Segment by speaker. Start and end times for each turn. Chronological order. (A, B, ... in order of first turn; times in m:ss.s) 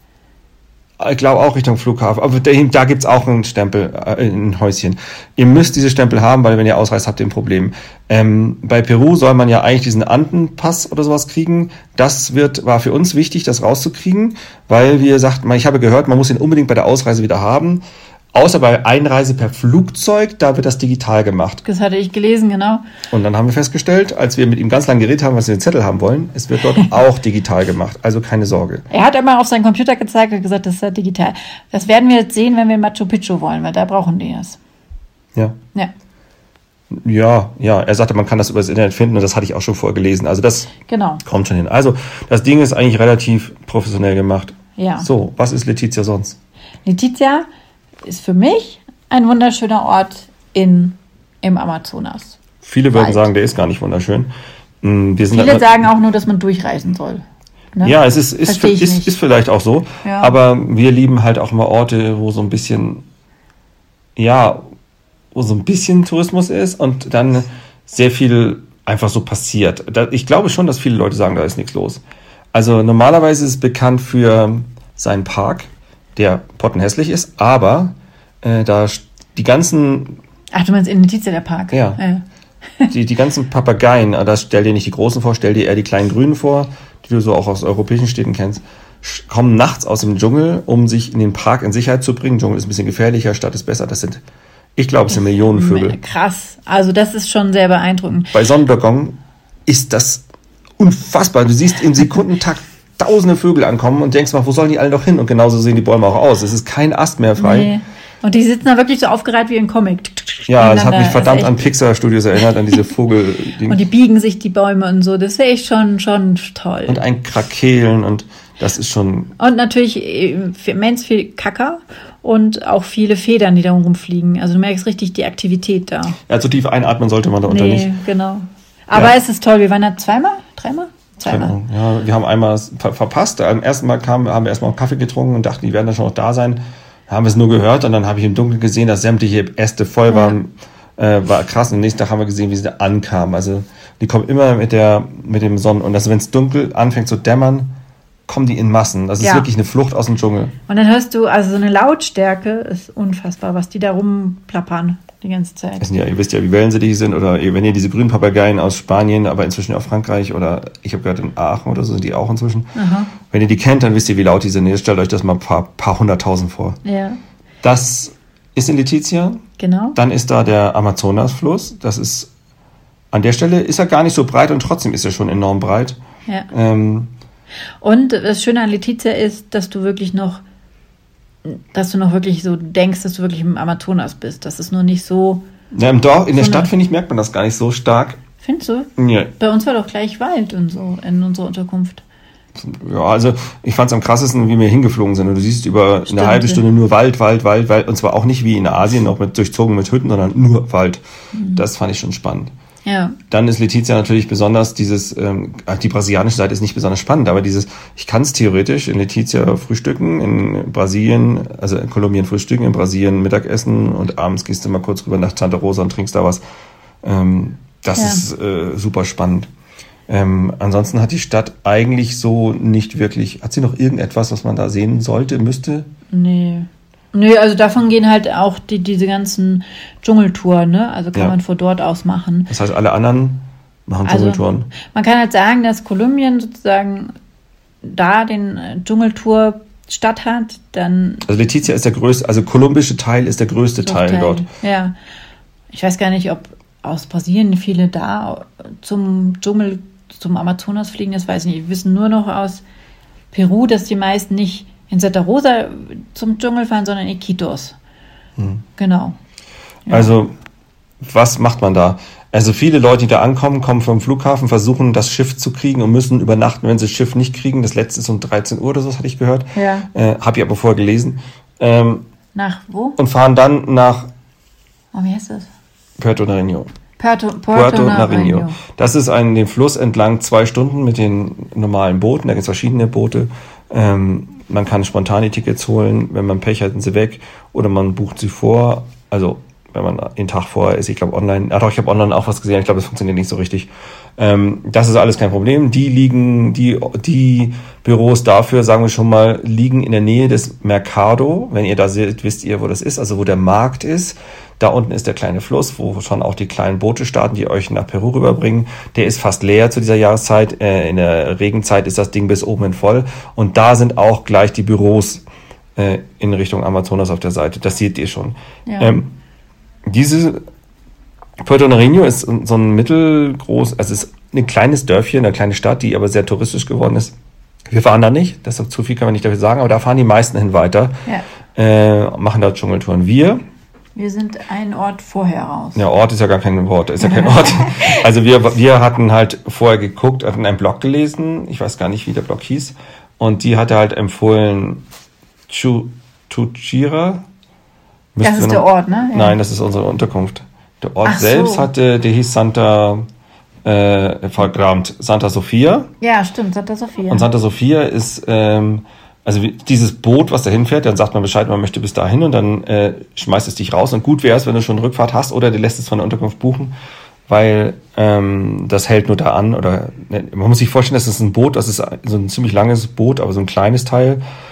0:01.0-0:17.8 A
0:18.3-0:21.6 A
0:21.6-0:22.8 B
0:23.1-0:28.9 A
0:28.9-0:34.6 B
0:36.9-0:46.4 A
0:40.8-0:41.2 B
0:44.8-0:45.1 B
0:46.8-0:47.5 B
0:48.0-0:52.4 B
0:52.6-0:54.3 A
0:52.9-0:53.3 B
0:54.8-0:55.9 A
0:55.3-0:57.2 B
0:57.7-0:59.1 B
0:57.8-1:03.0 A
1:00.0-1:00.3 B
1:04.2-1:04.6 A
1:05.3-1:12.0 A
1:12.5-1:20.2 A
1:20.5-1:22.2 B
1:21.7-1:22.0 A
1:22.9-1:34.2 A
1:34.8-1:36.0 A
1:35.1-1:38.3 B
1:38.3-1:40.2 A
1:40.8-1:47.7 A
1:47.4-1:51.7 B
1:50.5-1:53.8 A
1:53.6-1:57.0 B
1:56.9-1:59.3 A
1:59.4-2:06.2 B
2:06.3-2:07.9 A
2:07.5-2:11.6 B
2:11.2-2:27.7 A
2:20.1-2:20.4 B
2:28.3-2:30.5 A
2:29.2-2:29.5 B
2:30.7-2:35.8 B
2:35.8-2:46.8 A
2:42.7-2:43.1 B
2:46.8-2:47.2 B
2:47.6-2:49.4 A
2:49.6-2:50.0 B
2:49.9-2:52.3 A
2:53.1-2:56.0 A
2:56.5-2:57.1 A
2:57.8-3:00.4 B
3:01.4-3:05.4 B
3:05.7-3:08.2 A
3:06.3-3:06.7 B
3:08.4-3:12.0 B
3:09.0-3:09.3 A
3:12.6-3:22.5 A
3:16.1-3:16.6 B
3:21.3-3:21.6 B
3:22.8-3:23.2 B
3:23.3-3:36.4 A
3:37.0-3:39.5 A
3:38.0-3:38.2 B
3:40.1-3:45.9 A
3:46.1-3:52.5 B
3:52.5-3:54.7 A
3:54.0-3:57.1 B
3:57.8-4:01.3 B
4:01.2-4:04.4 A
4:03.8-4:04.9 B
4:05.7-4:12.6 B
4:13.3-4:17.8 B
4:18.4-4:18.6 A
4:18.8-4:19.2 B
4:19.9-4:20.3 A
4:21.0-4:32.0 A
4:29.5-4:29.9 B
4:32.3-4:33.0 B
4:33.0-4:34.1 A
4:34.9-4:35.5 B
4:36.0-4:36.7 A
4:37.0-4:38.6 B
4:37.5-5:15.2 A
5:15.8-5:19.1 A
5:18.6-5:19.0 B
5:19.8-5:20.4 A
5:21.4-5:27.1 A
5:27.7-5:31.0 A
5:31.5-5:33.4 A
5:34.0-5:35.8 B
5:35.8-5:44.8 A
5:37.0-5:38.0 B
5:45.5-5:47.2 A
5:48.1-5:53.0 A
5:48.2-5:49.4 B
5:51.0-5:51.7 B
5:53.6-5:55.9 A
5:56.0-5:57.3 B
5:57.1-6:06.7 A
6:07.3-6:14.2 A